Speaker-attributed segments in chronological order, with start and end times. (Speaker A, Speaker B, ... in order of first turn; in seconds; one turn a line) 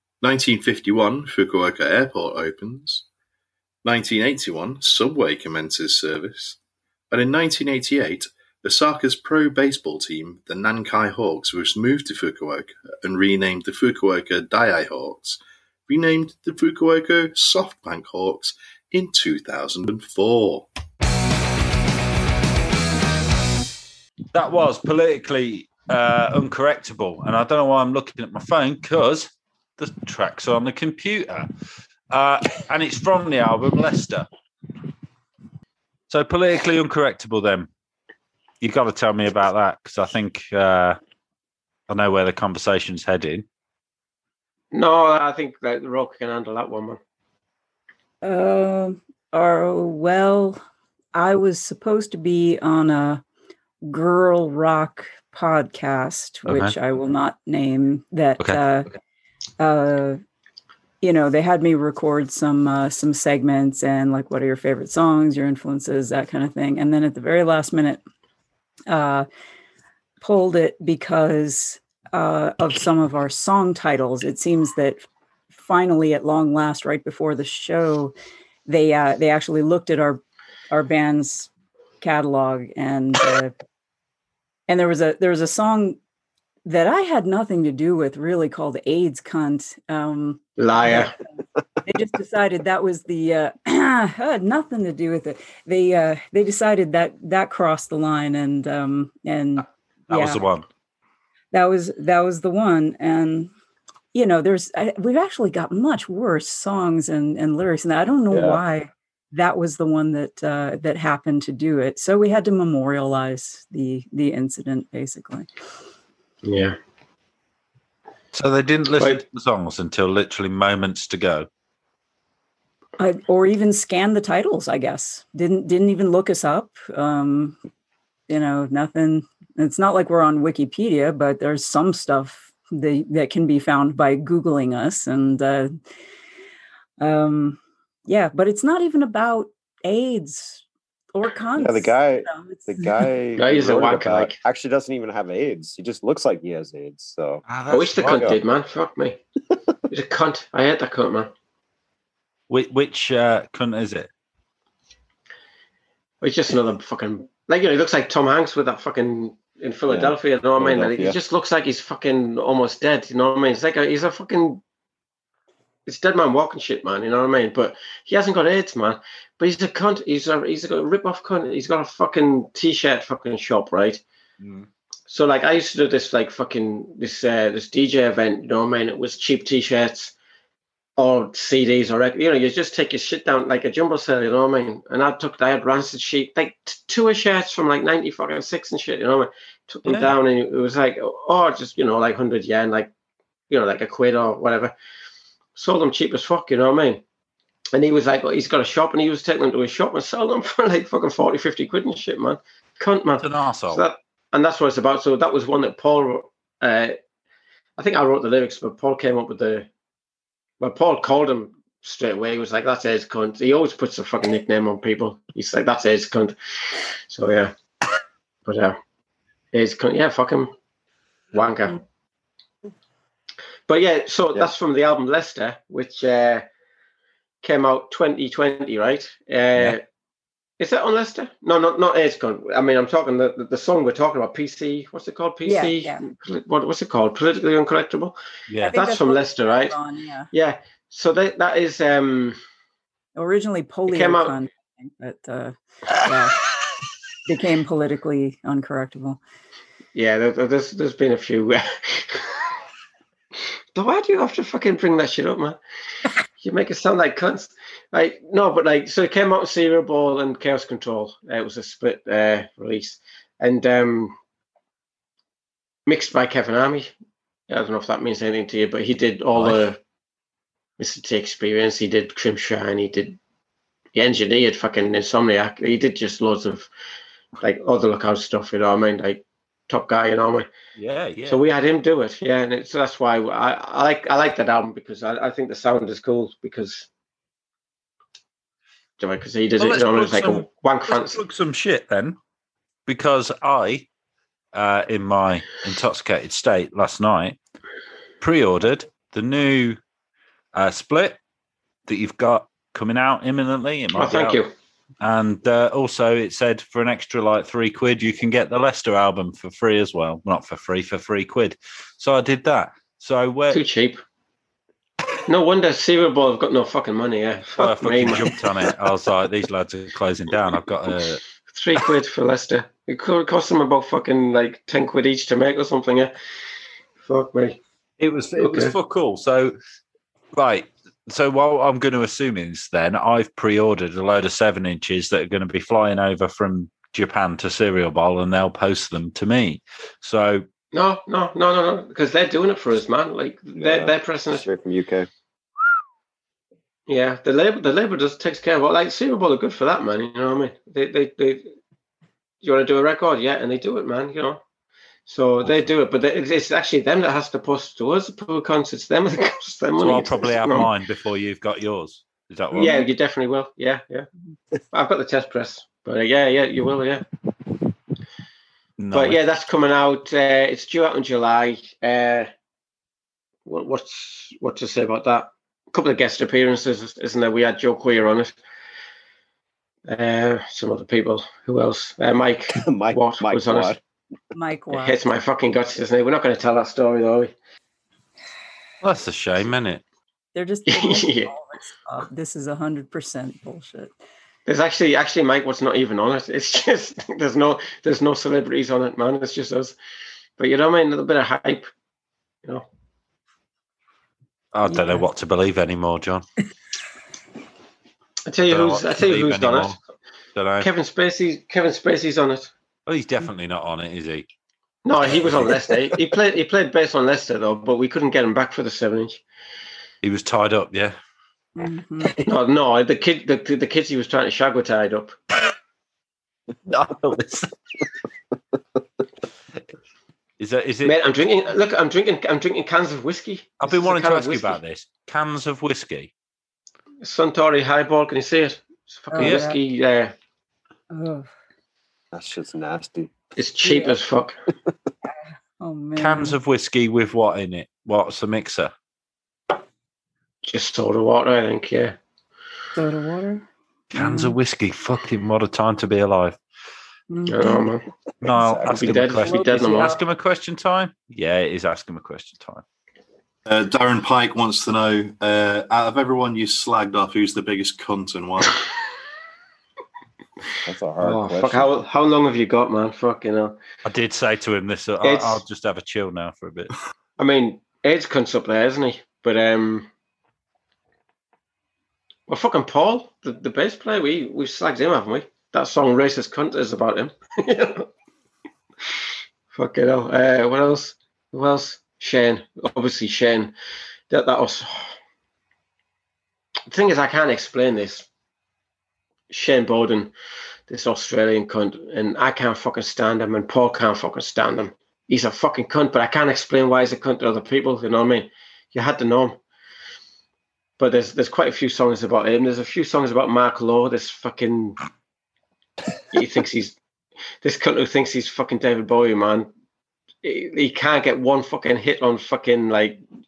Speaker A: 0.2-3.0
Speaker A: 3.8-6.6
Speaker A: 7.1-20.7
Speaker B: 24.3-31.5
Speaker B: 32.1-34.3
Speaker B: 36.1-37.7
Speaker B: 38.6-41.0
Speaker B: 41.9-43.5
Speaker C: 44.7-47.0
Speaker D: 48.2-50.6
Speaker D: 51.1-53.2
Speaker D: 53.8-58.9
Speaker B: 56.5-56.7
Speaker D: 59.6-60.2
Speaker D: 61.0-68.0
Speaker D: 68.9-69.3
Speaker D: 70.2-75.0
Speaker D: 75.5-78.1
Speaker D: 78.7-81.5
Speaker D: 82.0-83.5
Speaker D: 84.7-86.0
Speaker D: 86.7-91.0
Speaker C: 90.6-91.1
Speaker D: 91.8-100.4
Speaker B: 100.1-100.7
Speaker D: 101.5-103.5
Speaker D: 104.1-115.5
Speaker E: 108.3-108.6
Speaker C: 116.5-116.8
Speaker B: 118.3-121.5
Speaker D: 123.0-127.6
Speaker D: 128.3-135.8
Speaker D: 137.0-140.6
Speaker D: 141.1-143.1
Speaker E: 141.6-147.4
Speaker C: 143.4-144.3
Speaker B: 147.5-148.3
Speaker C: 147.7-149.2
Speaker E: 148.0-148.4
Speaker C: 149.9-151.3
Speaker B: 152.5-154.1
Speaker C: 156.2-164.6
Speaker E: 159.9-161.2
Speaker C: 165.9-174.0
Speaker C: 175.1-180.1
Speaker C: 181.0-192.9
Speaker C: 193.5-194.8
Speaker C: 195.6-197.0
Speaker C: 197.7-207.0
Speaker B: 203.2-203.8
Speaker C: 207.8-209.7
Speaker C: 210.6-217.5
Speaker C: 218.5-218.8
Speaker C: 219.5-220.5
Speaker C: 221.3-221.8
Speaker C: 223.7-226.5
Speaker C: 227.4-229.8
Speaker C: 230.6-238.2
Speaker D: 235.4-236.1
Speaker B: 238.5-238.8
Speaker D: 238.6-240.3
Speaker C: 238.7-239.8
Speaker C: 240.3-242.4
Speaker D: 243.2-246.4
Speaker C: 243.9-244.4
Speaker D: 247.3-249.2
Speaker C: 249.9-252.3
Speaker C: 253.8-255.6
Speaker C: 256.4-264.1
Speaker C: 265.9-266.9
Speaker C: 267.5-269.8
Speaker B: 269.4-269.6
Speaker C: 270.8-273.2
Speaker C: 273.9-276.7
Speaker C: 277.4-280.5
Speaker B: 280.8-281.4
Speaker C: 281.3-286.9
Speaker C: 289.0-291.2
Speaker B: 289.6-292.2
Speaker B: 292.9-293.9
Speaker B: 294.5-297.4
Speaker B: 298.2-299.8
Speaker B: 300.5-301.2
Speaker B: 301.9-304.4
Speaker C: 303.9-304.5
Speaker B: 305.0-313.6
Speaker C: 313.5-314.0
Speaker C: 315.3-318.5
Speaker B: 317.6-321.2
Speaker C: 321.5-326.1
Speaker C: 327.0-327.6
Speaker B: 328.0-329.6
Speaker C: 328.4-328.7
Speaker B: 330.4-340.4
Speaker C: 340.7-344.4
Speaker E: 343.6-345.1
Speaker C: 346.9-351.5
Speaker C: 352.4-354.4
Speaker C: 355.1-360.7
Speaker B: 359.8-362.8
Speaker C: 362.5-364.1
Speaker C: 364.7-367.1
Speaker B: 368.8-369.2
Speaker C: 368.9-372.3
Speaker C: 373.5-378.4
Speaker C: 379.9-383.8
Speaker E: 382.6-383.8
Speaker D: 384.3-385.0
Speaker C: 384.7-387.3
Speaker B: 388.8-389.8
Speaker D: 390.4-393.9
Speaker C: 390.7-391.3
Speaker C: 394.5-399.8
Speaker C: 400.4-401.7
Speaker B: 404.5-406.3
Speaker D: 404.7-405.1
Speaker C: 408.3-409.8
Speaker B: 408.4-409.8
Speaker B: 410.4-410.7
Speaker C: 410.6-412.5
Speaker B: 412.9-414.3
Speaker C: 414.9-419.2
Speaker B: 415.0-415.5
Speaker B: 420.0-421.0
Speaker D: 421.6-422.1
Speaker C: 422.2-425.2
Speaker B: 426.7-427.5
Speaker B: 430.4-431.0
Speaker C: 430.9-434.6
Speaker B: 433.6-436.1
Speaker C: 437.0-440.1
Speaker D: 439.1-439.6
Speaker B: 439.2-439.5
Speaker D: 440.9-441.3
Speaker E: 442.1-443.1
Speaker C: 443.4-444.4
Speaker D: 443.7-443.9
Speaker D: 445.1-446.4
Speaker B: 446.0-448.7
Speaker C: 450.5-452.0
Speaker D: 452.8-453.4
Speaker B: 453.9-456.4
Speaker D: 453.9-454.4
Speaker D: 457.1-457.7
Speaker C: 457.3-457.9
Speaker E: 458.2-459.1
Speaker B: 458.2-462.6
Speaker C: 458.7-460.0
Speaker A: 463.5-468.6
Speaker E: 470.6-471.7
Speaker C: 471.0-473.6
Speaker B: 473.9-476.7
Speaker C: 475.0-475.4
Speaker C: 477.2-479.9
Speaker C: 482.3-487.9
Speaker C: 489.5-493.6
Speaker C: 494.1-494.9
Speaker C: 496.7-498.1
Speaker C: 499.3-500.1
Speaker C: 500.7-509.4
Speaker C: 510.8-514.8
Speaker C: 516.1-516.8
Speaker C: 517.4-519.5
Speaker C: 520.2-523.0